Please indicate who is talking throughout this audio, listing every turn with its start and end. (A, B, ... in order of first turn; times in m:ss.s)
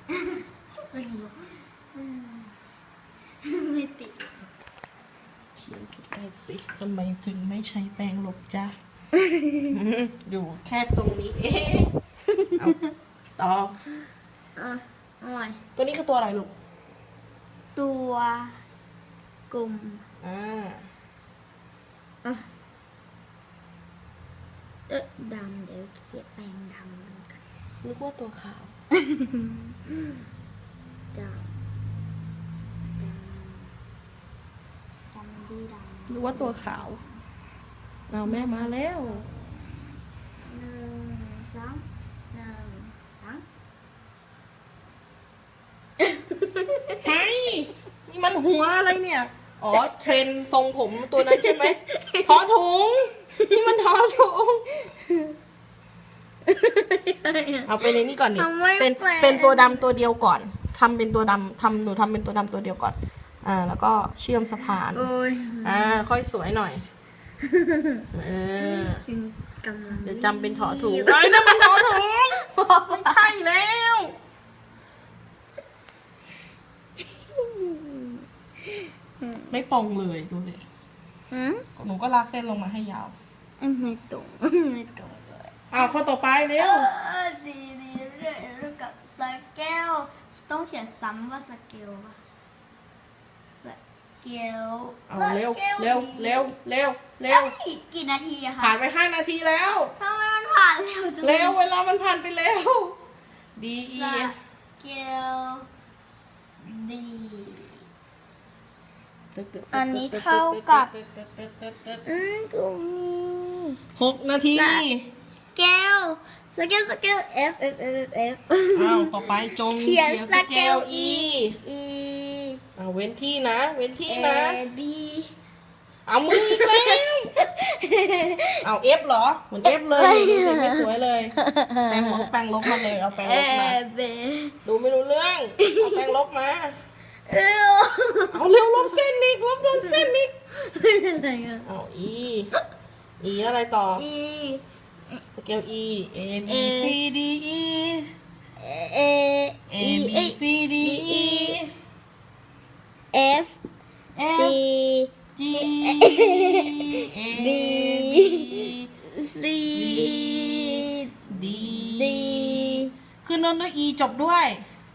0:00.1-0:02.5 A
0:03.4-0:04.5 A
0:05.6-0:08.7 B
0:09.1-0:09.7 A
0:09.7-0:11.9 B
0:13.4-0:13.8 B
0:14.6-0:15.6 A
0:15.8-0:16.5 B
0:17.8-0:18.6 A
0:19.5-0:20.0 A
0:20.2-0:20.8 B
0:24.9-0:27.4 A
0:27.8-0:28.7 B
0:29.0-0:29.7 A
0:31.1-0:31.5 A
0:33.0-0:33.7 A
0:35.1-0:37.2 A
0:36.1-0:37.0 B
0:38.1-0:39.2 B
0:38.2-0:39.9 A
0:40.4-0:43.4 A
0:46.0-0:47.0 A
0:47.0-0:54.7 B
0:51.1-0:52.4 A
0:54.8-0:55.3 A
0:56.5-0:59.8 A
0:57.6-1:05.1 B
1:04.9-1:06.0 A
1:05.6-1:06.8 B
1:07.4-1:08.0 A
1:08.1-1:09.0 B
1:08.6-1:12.0 A
1:10.0-1:14.1 B
1:12.9-1:13.2 A
1:17.3-1:19.5 A
1:19.5-1:20.6 B
1:21.3-1:21.6 A
1:21.8-1:23.1 B
1:23.6-1:25.9 A
1:25.7-1:26.9 B
1:26.6-1:32.2 A
1:33.6-1:36.5 A
1:35.1-1:37.6 B
1:37.3-1:38.8 A
1:38.6-1:39.9 B
1:39.8-1:41.6 A
1:41.2-1:43.0 B
1:43.6-1:44.3 B
1:43.9-1:45.7 A
1:46.6-1:47.8 A
1:49.3-1:52.0 B
1:49.7-1:50.9 A
1:52.0-1:53.8 A
1:54.0-1:55.1 B
1:54.4-1:54.8 A
1:55.5-2:02.6 A
1:58.7-2:01.6 B
2:02.8-2:04.6 B
2:04.1-2:05.3 A
2:06.1-2:07.3 B
2:06.3-2:08.6 A
2:08.6-2:11.3 B
2:09.9-2:10.8 A
2:11.4-2:14.6 A
2:11.9-2:13.8 B
2:14.6-2:16.7 B
2:15.6-2:16.1 A
2:17.3-2:19.1 A
2:18.3-2:20.3 B
2:19.7-2:21.7 A
2:21.6-2:22.5 B
2:23.2-2:24.0 B
2:23.9-2:25.2 A
2:25.3-2:28.1 B
2:26.4-2:27.0 A
2:28.6-2:31.6 A
2:29.7-2:31.7 B
2:33.1-2:33.6 A
2:34.2-2:34.6 B
2:34.3-2:42.9 A
2:35.4-2:38.9 B
2:39.7-2:44.6 B